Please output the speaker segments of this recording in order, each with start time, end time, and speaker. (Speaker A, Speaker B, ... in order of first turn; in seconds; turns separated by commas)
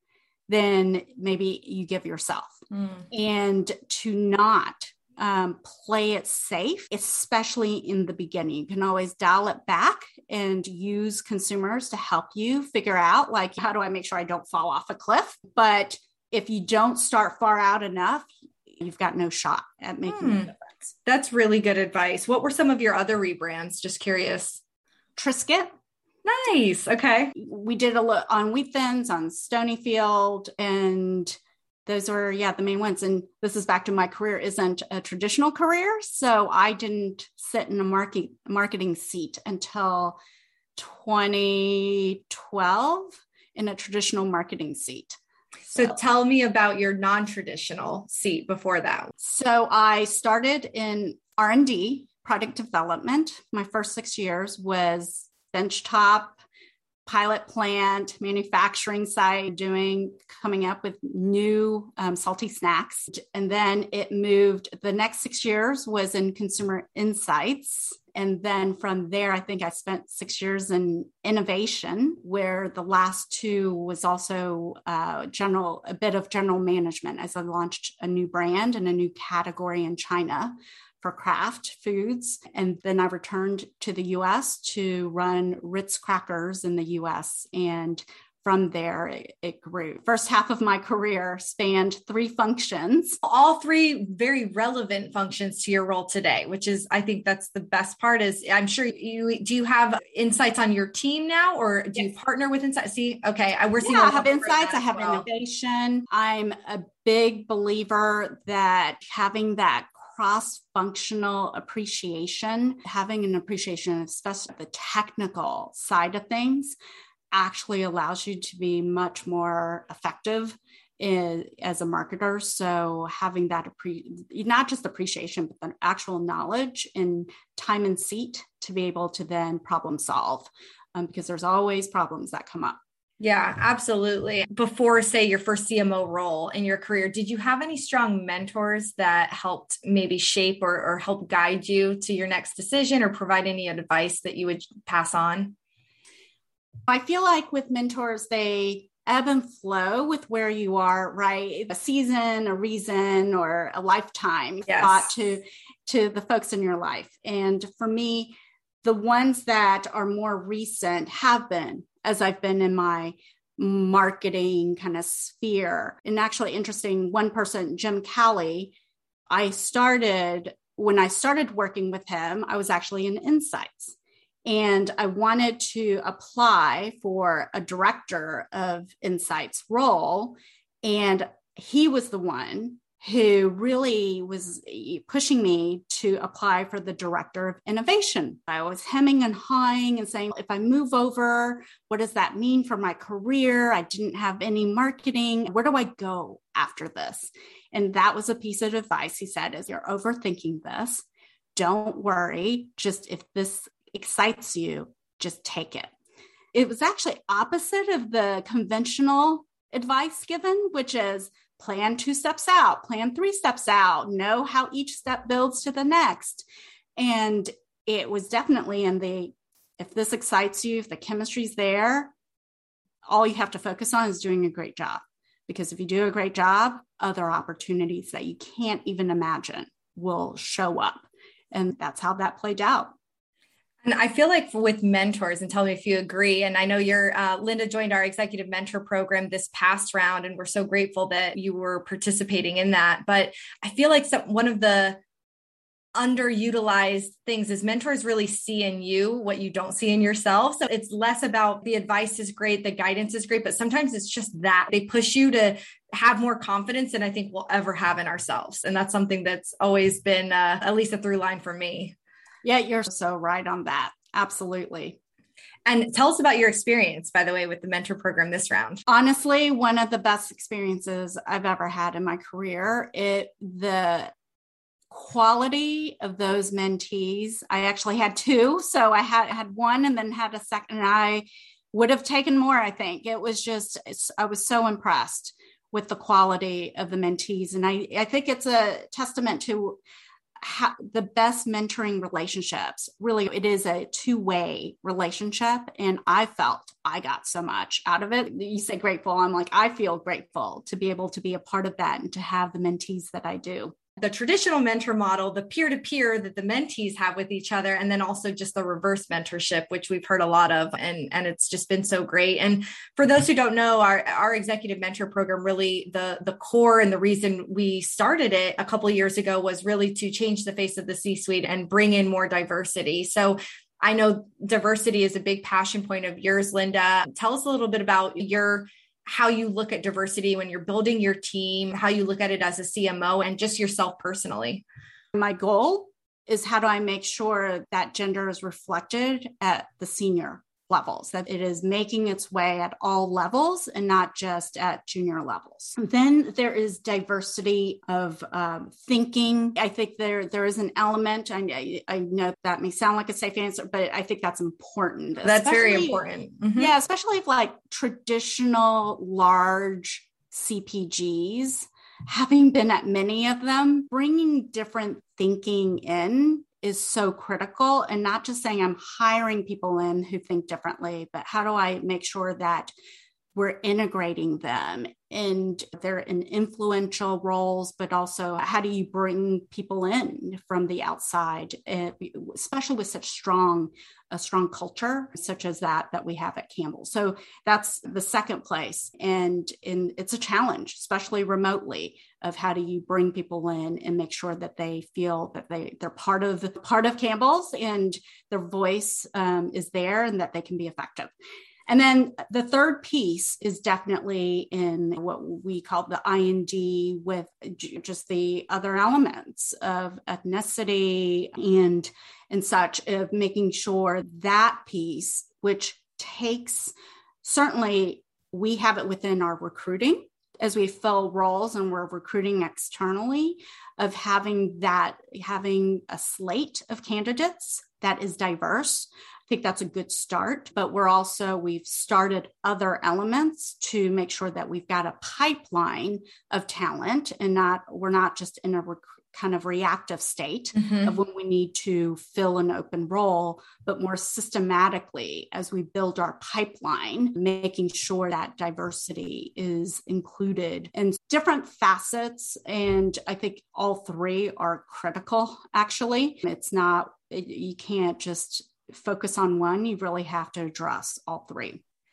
Speaker A: 0.5-20.7, Speaker B: 20.1-20.5, Speaker B: 21.0-24.6, Speaker A: 25.2-25.7, Speaker B: 26.2-27.3, Speaker A: 27.3-40.2, Speaker A: 40.8-45.2, Speaker B: 45.7-49.1, Speaker A: 49.2-56.4, Speaker A: 57.0-93.2, Speaker B: 93.2-105.2, Speaker A: 103.8-116.8, Speaker A: 117.3-132.8, Speaker B: 133.2-145.5, Speaker A: 146.9-168.7, Speaker B: 154.7-155.1, Speaker A: 169.3-201.0, Speaker A: 201.6-205.9, Speaker A: 206.5-216.4, Speaker A: 217.0-222.1, Speaker A: 223.1-232.9, Speaker B: 233.8-245.0, Speaker B: 245.9-261.9, Speaker A: 262.4-265.0, Speaker B: 265.6-268.8, Speaker A: 268.9-274.1, Speaker A: 274.9-289.8, Speaker A: 290.4-303.7, Speaker B: 304.0-334.6, Speaker A: 335.1-356.0, Speaker B: 355.2-356.7, Speaker A: 356.6-372.7, Speaker A: 373.3-401.1, Speaker A: 401.7-461.6, Speaker B: 440.5-440.9